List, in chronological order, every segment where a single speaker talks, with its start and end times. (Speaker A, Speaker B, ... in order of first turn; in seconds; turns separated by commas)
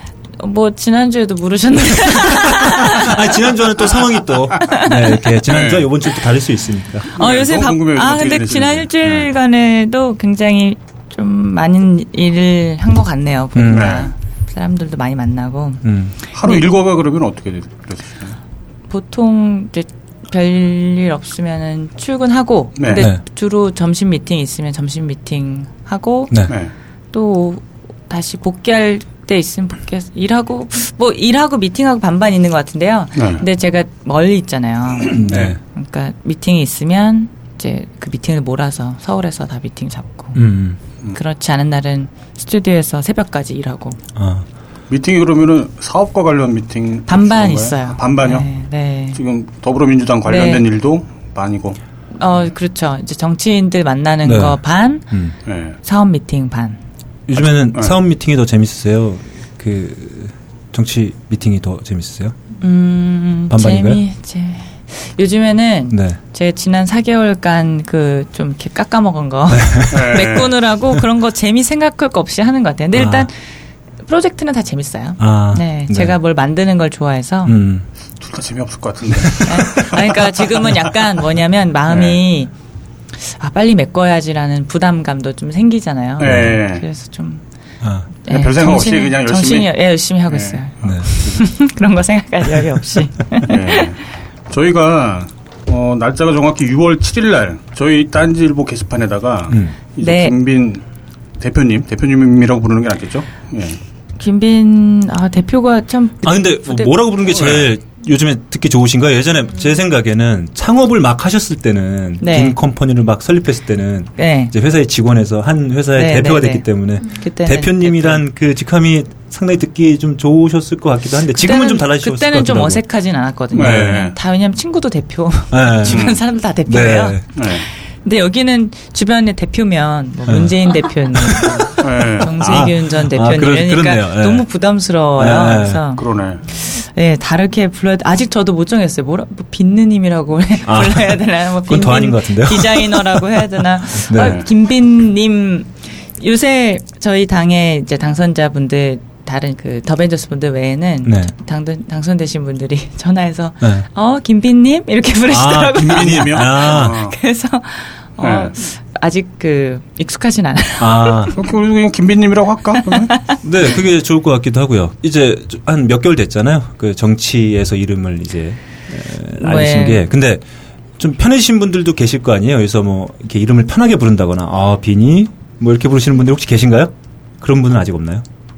Speaker A: 0.4-3.4, Speaker B: 2.3-7.1, Speaker A: 4.6-5.2, Speaker C: 5.5-5.9, Speaker C: 7.1-9.3, Speaker A: 7.1-15.9, Speaker B: 13.5-14.0, Speaker C: 13.7-14.1, Speaker B: 15.8-16.1, Speaker C: 16.3-18.4, Speaker A: 18.9-26.4, Speaker C: 22.8-23.0, Speaker A: 27.1-40.4, Speaker C: 33.1-33.4, Speaker B: 35.1-35.6, Speaker C: 35.1-35.5, Speaker B: 40.4-40.8, Speaker A: 41.1-44.0, Speaker B: 44.1-44.5, Speaker C: 44.9-48.5, Speaker A: 47.1-49.2, Speaker C: 49.1-51.8, Speaker A: 50.2-50.6, Speaker A: 52.2-55.1, Speaker B: 54.2-54.6, Speaker C: 55.5-55.8, Speaker A: 55.8-56.8, Speaker B: 57.3-62.4, Speaker C: 57.4-58.0, Speaker A: 62.6-73.3, Speaker B: 63.5-64.0, Speaker B: 65.9-66.2, Speaker B: 69.5-70.0, Speaker C: 69.9-70.5, Speaker B: 72.9-73.3, Speaker A: 74.1-77.5, Speaker B: 75.2-76.2, Speaker B: 77.5-77.9, Speaker C: 78.2-79.9, Speaker B: 79.2-80.0, Speaker A: 79.5-82.5, Speaker C: 81.9-82.2, Speaker A: 83.2-87.4, Speaker C: 86.2-86.8, Speaker B: 86.2-86.5, Speaker A: 88.2-93.9, Speaker C: 88.3-89.7, Speaker C: 90.3-91.4, Speaker C: 93.4-94.0, Speaker C: 94.5-100.8, Speaker A: 100.0-100.4, Speaker C: 101.4-103.8, Speaker A: 104.2-107.0, Speaker B: 106.2-122.8, Speaker C: 107.3-107.7, Speaker A: 112.2-112.6, Speaker A: 114.2-114.5, Speaker A: 116.0-118.2, Speaker A: 121.3-161.4, Speaker C: 123.5-124.2, Speaker B: 125.5-126.1, Speaker C: 125.9-126.2, Speaker B: 126.7-127.2, Speaker C: 127.3-127.7, Speaker B: 130.3-130.5, Speaker B: 131.1-134.4, Speaker C: 131.8-132.3, Speaker B: 135.2-135.8, Speaker C: 135.9-136.4, Speaker B: 140.7-143.4, Speaker B: 143.9-144.4, Speaker C: 144.1-144.5, Speaker B: 151.0-151.3, Speaker B: 155.3-157.0, Speaker C: 155.8-157.2, Speaker C: 158.2-158.5, Speaker B: 160.8-161.4, Speaker C: 161.3-163.2, Speaker B: 163.4-170.4, Speaker A: 169.4-170.0, Speaker B: 171.0-178.2